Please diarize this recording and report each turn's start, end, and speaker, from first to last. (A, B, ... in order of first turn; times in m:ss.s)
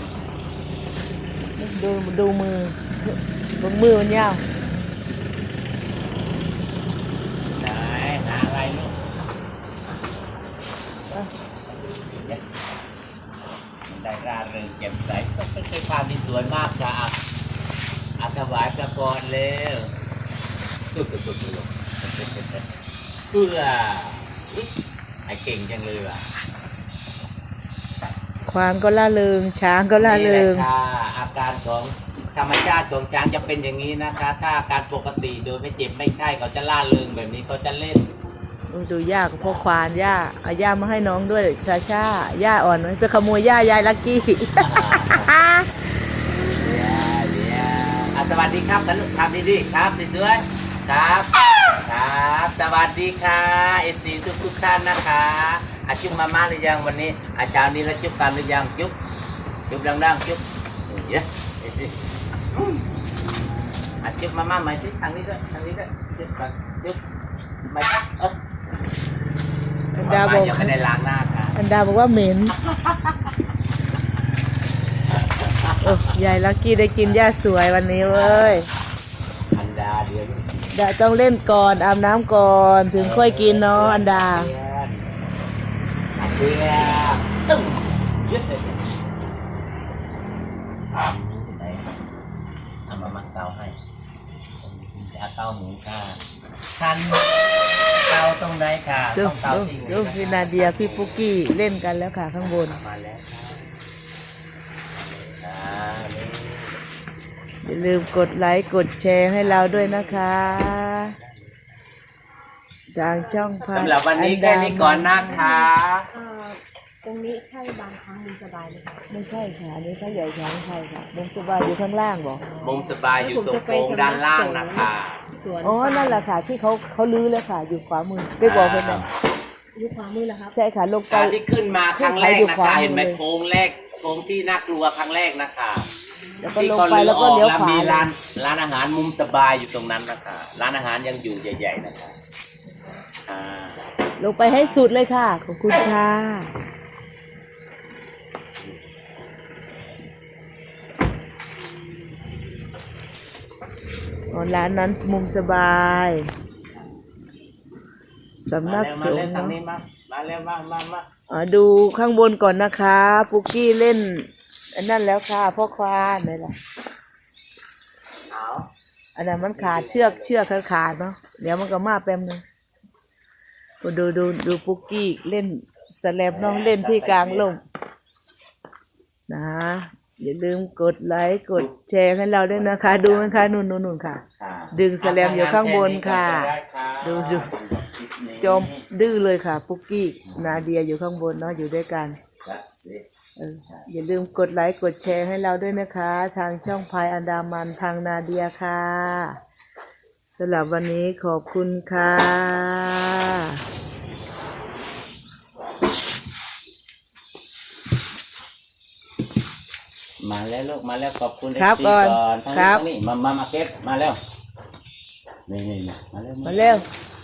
0:01.6-0:04.4 A
0:07.5-0:09.0 B
0:11.8-0:12.4 B
0:13.9-0:17.2 B
0:18.2-0:19.9 B
0:20.9-0:22.6 B
0:23.3-0:24.7 B
0:25.3-0:26.3 B
0:28.5-0:30.7 A
0:30.0-0:38.1 B
0:38.7-0:45.7 A
0:44.6-0:45.3 B
0:46.6-0:59.0 B
0:59.7-1:02.0 B
1:02.5-1:02.8 B
1:04.0-1:07.0 B
1:07.7-1:08.4 B
1:09.9-1:10.7 A
1:10.0-1:11.6 B
1:11.6-1:12.6 A
1:12.6-1:13.3 B
1:15.2-1:16.1 B
1:15.8-1:18.7 A
1:18.1-1:18.6 B
1:19.5-1:20.7 B
1:20.7-1:24.5 A
1:22.9-1:25.1 B
1:26.2-1:29.1 B
1:30.9-1:31.9 B
1:32.9-1:33.8 B
1:34.6-1:36.2 B
1:36.8-1:37.3 B
1:38.1-1:41.3 B
1:39.1-1:42.8 A
1:42.4-1:43.9 B
1:45.0-1:46.8 B
1:47.6-1:51.2 A
1:49.4-1:51.7 B
1:52.9-1:55.4 A
1:53.7-1:56.1 B
1:55.2-1:59.1 C
1:59.1-2:02.4 A
2:02.5-2:06.2 C
2:02.6-2:05.2 B
2:05.6-2:09.1 A
2:08.4-2:09.1 B
2:09.8-2:10.6 C
2:10.6-2:11.4 A
2:11.1-2:15.9 B
2:11.9-2:13.2 A
2:16.4-2:18.1 A
2:16.4-2:22.2 B
2:23.3-2:23.8 B
2:24.2-2:26.5 A
2:24.4-2:24.9 B
2:28.6-2:28.8 B
2:34.3-2:36.3 A
2:38.4-2:39.6 A
2:38.6-2:41.1 B
2:41.3-2:46.5 A
2:48.3-2:48.7 B
2:49.2-2:52.4 A
2:49.4-2:50.5 B
2:53.8-2:57.6 A
2:56.3-2:57.6 B
2:59.3-3:07.5 A
3:02.5-3:03.5 B
3:04.4-3:08.8 B
3:08.4-3:12.2 A
3:10.2-3:10.7 B
3:12.4-3:13.1 B
3:13.4-3:19.4 A
3:20.4-3:23.6 A
3:30.2-3:34.2 B
3:31.6-3:32.8 A
3:35.5-3:36.8 B
3:36.4-3:36.8 A